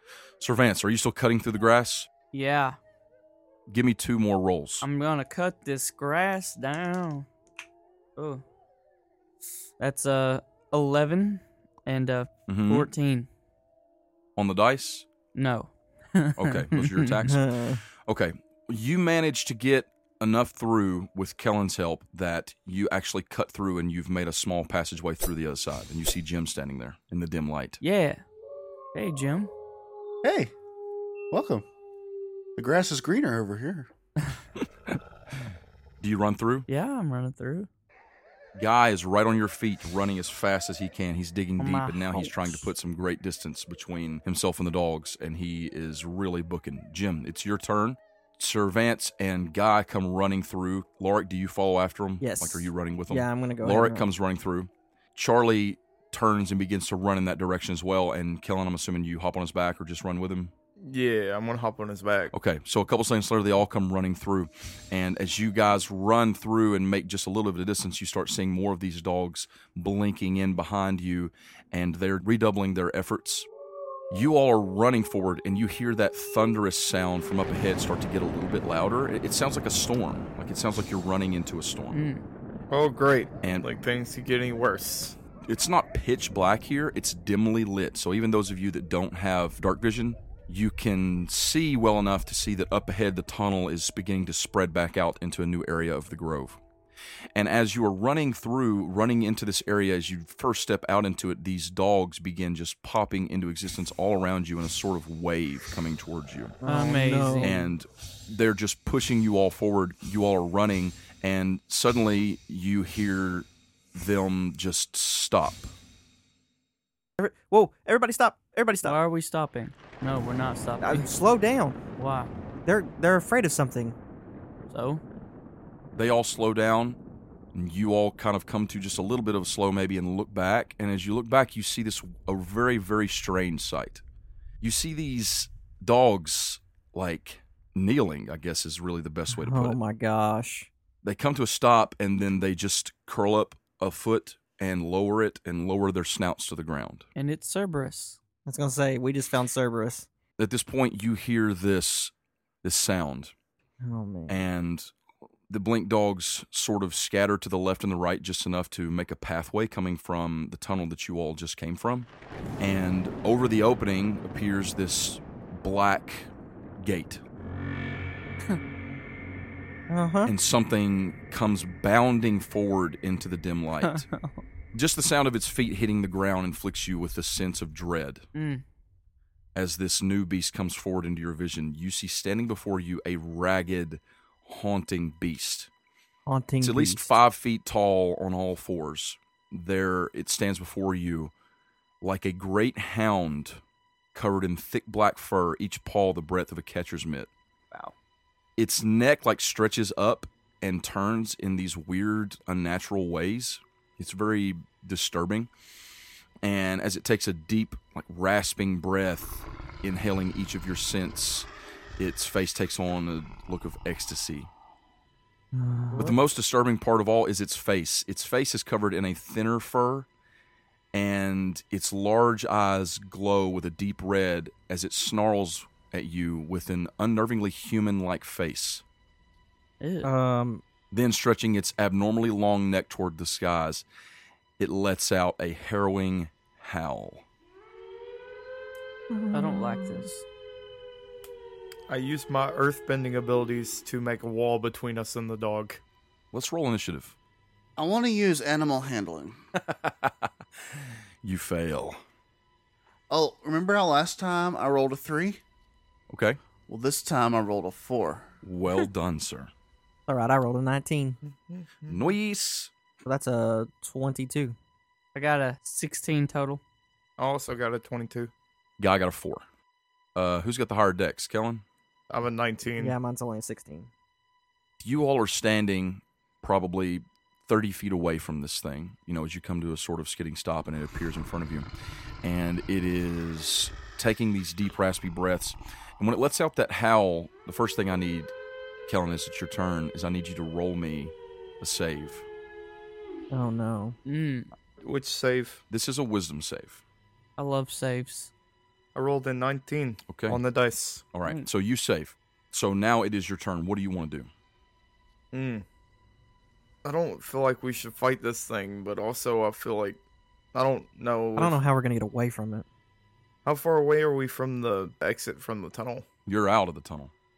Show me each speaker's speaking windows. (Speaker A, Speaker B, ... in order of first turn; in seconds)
Speaker A: 0.4-2.1, 3.7-4.9, 12.5-12.9, 14.4-15.1, 16.4-27.8, 36.0-36.7, 38.5-60.5, 62.3-73.5, 74.1-82.0, 83.4-83.7, 85.5-96.6, 97.3-106.6, 107.4-115.7, 126.0-127.0, 127.5-134.0, 134.6-139.8, 141.0-147.1, 150.4-152.1, 152.6-153.3, 154.3-154.9, 155.5-162.1, 162.6-167.2, 170.3-174.1, 174.7-178.3, 179.6-185.7, 186.6-191.3, 192.0-193.6, 194.1-197.3, 198.6-205.5, 206.4-214.5, 215.9-220.1, 220.9-228.8, 230.9-233.8, 234.6-237.2, 246.3-247.2, 249.6-252.0, 256.1-256.4, 258.4-259.5, 261.9-262.7, 268.8-269.4, 270.1-271.6, 274.8-281.7, 282.2-288.3, 288.9-292.3, 295.7-296.8, 300.1-300.4, 301.1-304.3, 316.3-317.1
Speaker B: 2.3-2.8, 4.8-7.3, 8.2-8.4, 9.8-13.3, 15.3-17.2, 27.8-28.2, 28.9-29.5, 36.7-37.7, 41.6-42.6, 81.9-82.2, 106.7-107.5, 118.8-121.1, 122.0-122.3, 124.7-125.0, 147.2-148.2, 173.8-174.4, 178.3-178.6, 229.8-230.1, 239.3-240.2, 265.1-266.6, 294.1-294.5, 297.4-298.3
Speaker C: 17.2-17.8, 52.2-54.1, 106.6-107.7, 117.2-119.0, 120.8-121.8, 122.6-124.0, 139.3-140.7, 148.5-150.1, 153.8-154.4, 169.9-170.3, 186.3-187.1, 215.5-216.2, 230.0-230.6, 239.1-240.1, 260.1-261.2, 263.1-264.6, 272.8-273.9, 293.3-294.0, 311.4-312.7
Speaker D: 30.2-30.5, 31.3-31.6, 32.6-33.9, 247.8-249.4, 253.1-255.4, 256.7-258.3
Speaker E: 60.8-62.3, 82.7-85.2, 241.9-245.8, 261.3-262.0, 267.2-268.3, 272.1-272.9, 294.8-295.6, 298.9-301.1, 305.3-305.6, 306.8-310.0, 310.5-311.6, 313.4-316.1